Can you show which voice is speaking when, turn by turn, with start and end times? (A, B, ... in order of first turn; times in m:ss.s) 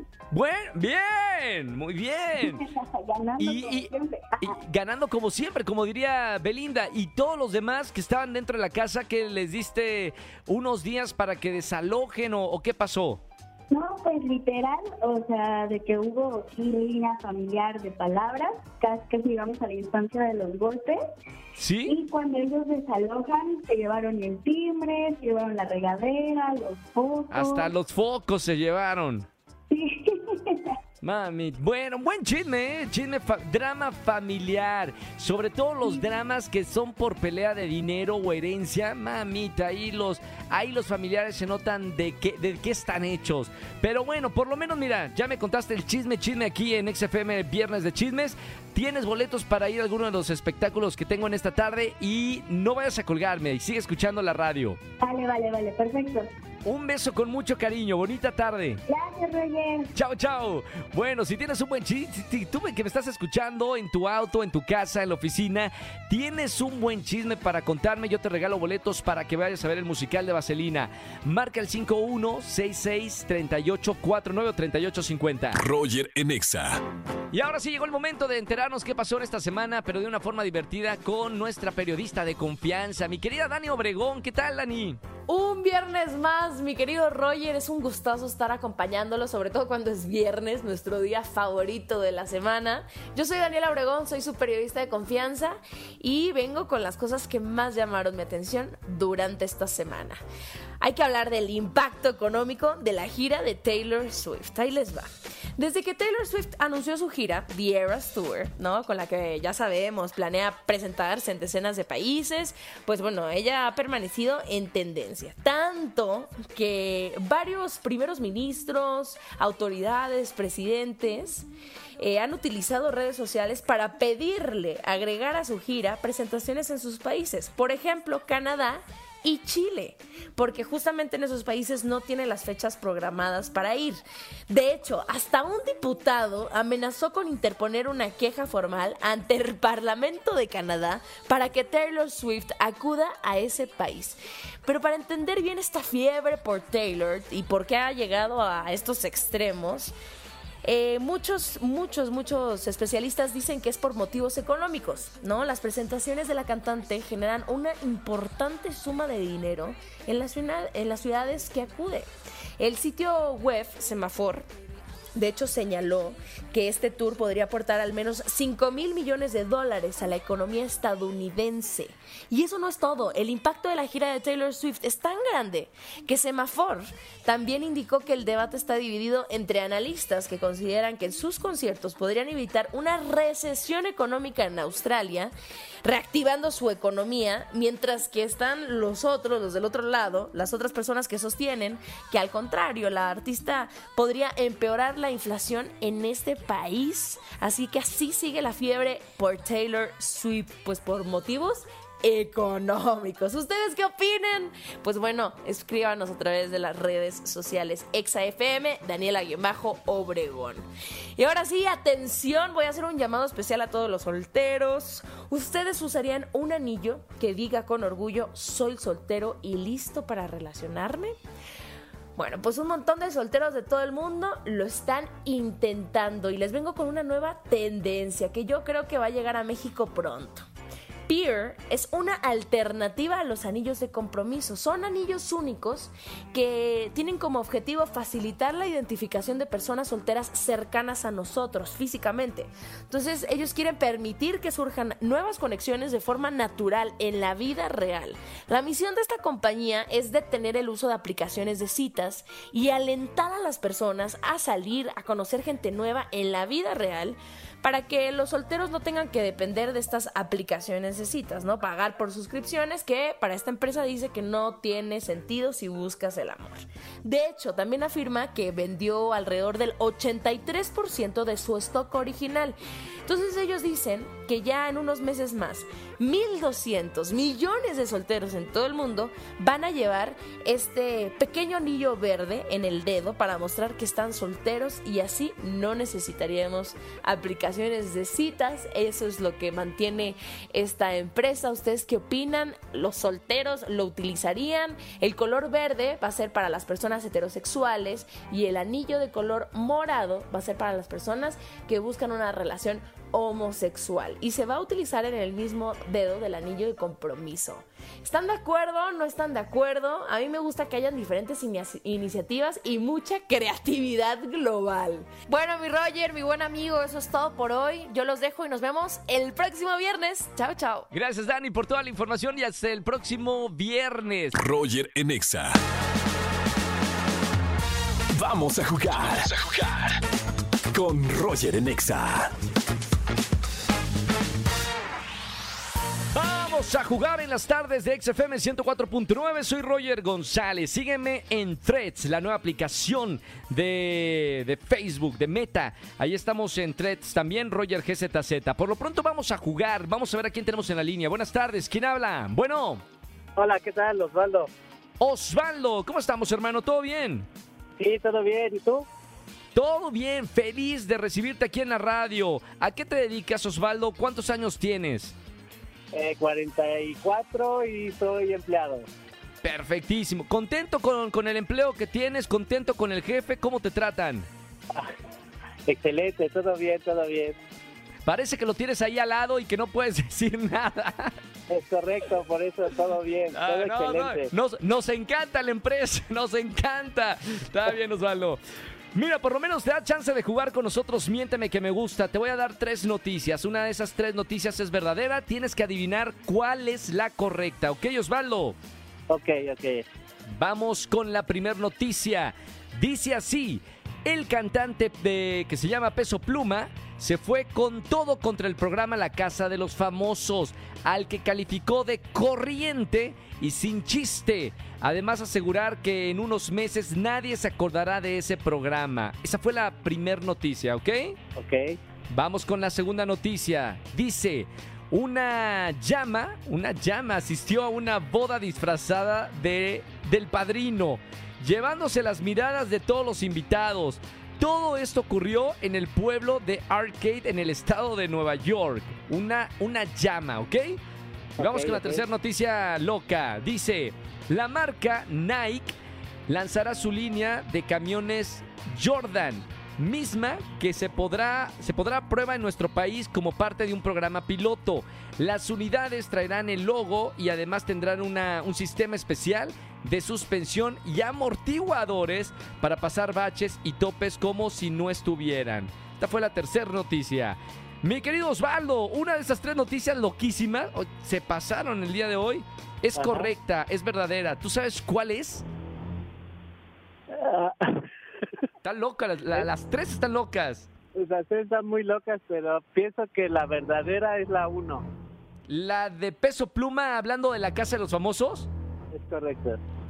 0:00.3-0:02.6 A
0:02.4-0:04.6 B
0:03.4-0:13.2 A
0:13.7-0:21.0 B
0:21.6-0:22.0 A
0:21.8-0:27.7 B
0:27.3-0:29.3 A
0:29.7-0:30.7 B
0:31.0-0:54.8 A
0:55.0-0:56.3 B
0:56.6-0:58.8 A
0:58.9-0:59.9 B
0:59.9-1:15.6 A
1:15.6-1:16.8 C
1:17.3-1:25.0 A
1:25.3-1:40.2 D
1:40.8-2:01.5 D
2:02.0-2:29.9 D
2:30.6-2:44.5 D
2:45.2-3:05.3 D
3:05.8-3:30.6 D
3:31.2-3:41.1 D
3:42.2-3:50.4 D
3:51.1-5:20.9 D
5:20.9-5:24.4 A
5:24.4-5:25.6 C
5:28.2-5:29.4 C
5:30.7-5:32.3 C
5:36.1-5:52.8 A
5:53.4-5:54.5 E
5:55.0-5:57.3 A
5:57.8-5:58.9 E
5:59.6-6:05.1 A
6:05.9-6:08.9 E
6:09.4-6:14.3 A
6:15.7-6:17.4 E
6:18.1-6:21.1 A
6:21.5-6:24.3 E
6:23.3-6:28.4 A
6:29.0-6:38.6 A
6:39.1-6:39.8 E
6:40.3-7:01.2 A
7:01.4-7:01.8 E
7:02.1-7:20.8 A
7:21.4-7:22.0 E
7:21.4-7:25.8 A
7:26.3-7:55.4 A
7:53.0-7:53.3 E
7:57.1-7:57.8 E
7:58.6-8:00.7 A
8:01.0-8:04.8 E
8:05.5-8:08.5 A
8:08.9-8:09.6 E